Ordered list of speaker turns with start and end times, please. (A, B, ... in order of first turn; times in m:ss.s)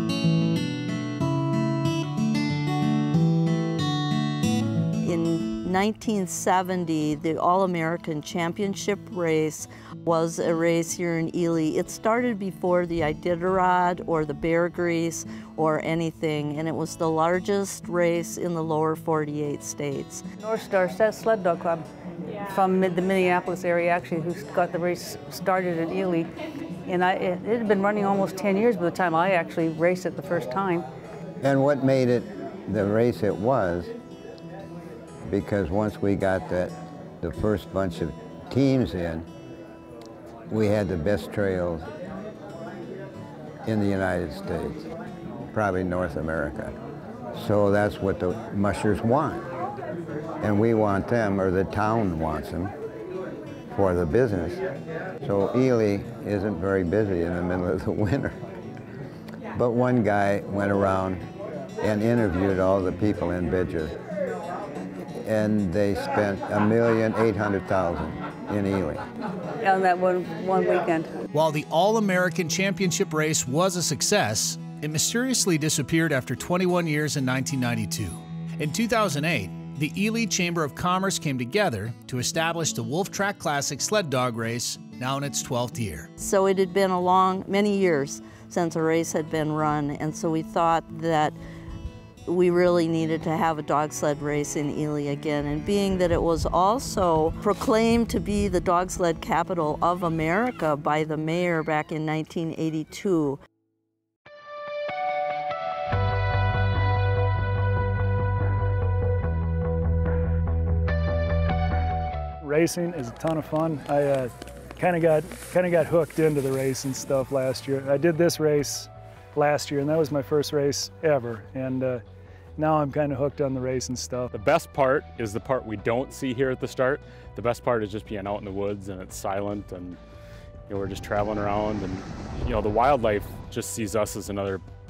0:05.0-0:20.2 A
0:20.4-0:26.3 B
0:26.8-0:30.8 B
0:31.4-0:33.9 C
0:35.2-0:39.3 C
0:40.5-0:41.9 C
0:43.6-0:44.9 C
0:45.5-0:46.7 C
0:47.3-0:49.4 C
0:50.4-0:52.7 C
0:53.7-0:54.6 C
0:55.2-0:58.4 C
0:59.5-1:01.2 C
1:01.8-1:04.0 C
1:05.2-1:09.0 C
1:09.6-1:11.1 B
1:11.3-1:26.1 D
1:26.2-1:31.4 A
1:32.3-1:43.4 A
1:52.4-2:02.0 E
2:02.6-2:04.3 E
2:04.3-2:10.0 F
2:10.7-2:14.6 F